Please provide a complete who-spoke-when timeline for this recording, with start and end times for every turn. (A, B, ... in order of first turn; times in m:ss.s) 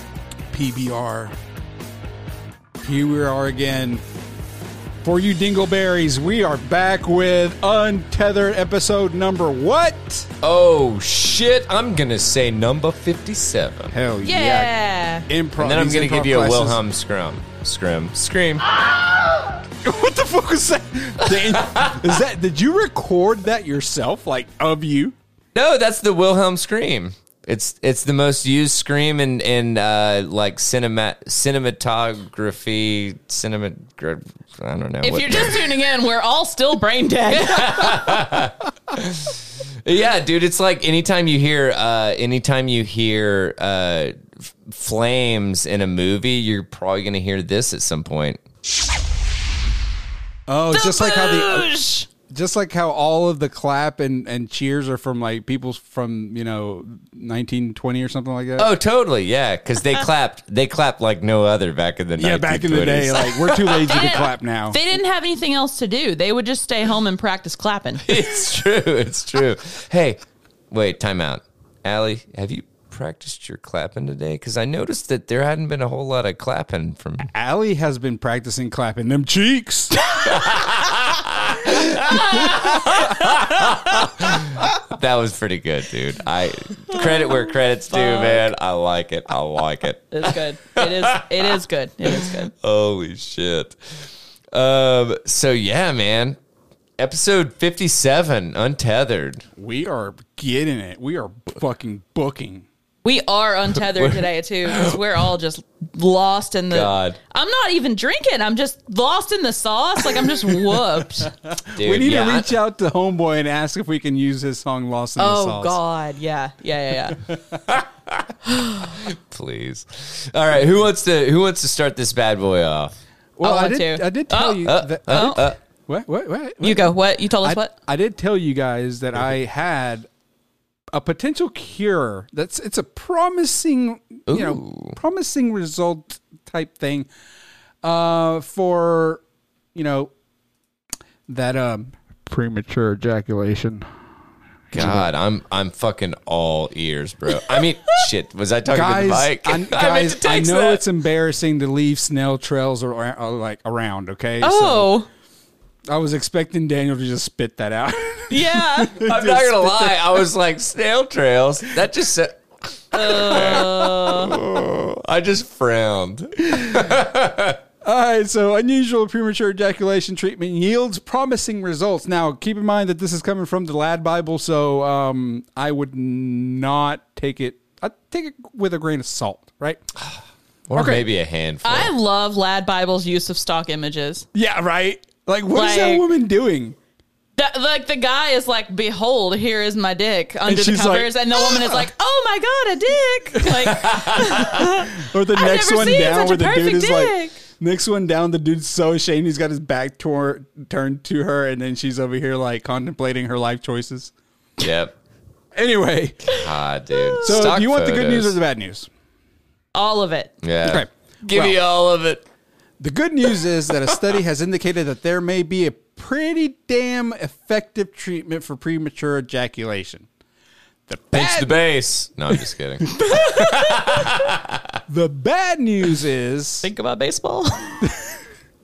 0:00.5-0:01.3 A
0:02.8-0:04.0 A
0:05.0-0:10.3 A
0:10.4-0:13.9 B
0:13.9-0:14.7 A
0:14.2-0:15.3 C
0:15.3-0:16.8 A
0:15.6-0:18.7 B
0:19.8-0:25.2 A
0:21.3-0:22.0 B
0:25.5-0:35.8 B
0:35.0-0:38.0 C
0:37.3-0:48.4 B
0:50.5-0:51.7 A
0:50.7-0:52.1 C
0:52.3-0:58.7 A
0:58.6-1:04.1 B
1:02.2-1:04.8 A
1:03.9-1:08.1 C
1:08.0-1:10.2 B
1:10.7-1:17.3 B
1:17.3-1:20.0 A
1:20.3-1:33.8 B
1:21.9-1:23.7 C
1:22.1-1:22.6 A
1:26.9-1:28.5 C
1:30.1-1:32.5 C
1:34.5-1:36.4 B
1:37.0-1:39.4 B
1:39.6-1:42.7 A
1:43.0-1:51.3 C
1:43.9-1:45.2 B
1:46.7-1:47.2 B
1:51.3-1:55.8 A
1:51.7-1:52.5 B
1:55.2-1:57.2 C
1:57.7-1:58.3 B
1:58.5-1:59.0 C
1:58.9-2:02.9 B
2:03.4-2:10.1 A
2:03.4-2:05.4 C
2:04.6-2:05.6 B
2:06.6-2:07.7 C
2:10.9-2:17.1 A
2:14.3-2:15.0 B
2:17.8-2:19.2 A
2:19.8-2:20.1 A
2:21.3-2:23.9 A
2:24.7-2:30.9 B
2:24.7-2:25.1 A
2:28.7-2:34.9 A
2:34.4-2:35.1 C
2:35.9-2:40.2 A
2:38.3-2:39.0 C
2:39.0-2:42.4 B
2:42.9-2:47.6 B
2:42.9-2:44.4 C
2:47.8-2:59.8 A
3:00.7-3:01.9 B
3:00.8-3:01.1 A
3:01.6-3:04.3 C
3:04.3-3:06.8 A
3:05.5-3:06.1 C
3:07.4-3:17.4 C
3:10.5-3:11.8 A
3:13.4-3:24.1 A
3:13.7-3:14.5 B
3:24.6-3:24.9 B
3:25.6-3:26.3 A
3:26.3-3:28.4 B
3:26.9-3:27.5 C
3:27.2-3:28.9 A
3:29.8-3:30.3 C
3:30.4-3:32.2 B
3:30.7-3:31.6 A
3:32.8-3:40.1 A
3:40.9-3:41.6 A
3:41.1-3:44.7 B
3:43.0-3:44.0 C
3:44.9-3:46.7 A
3:46.6-3:47.8 C
3:47.8-3:48.1 A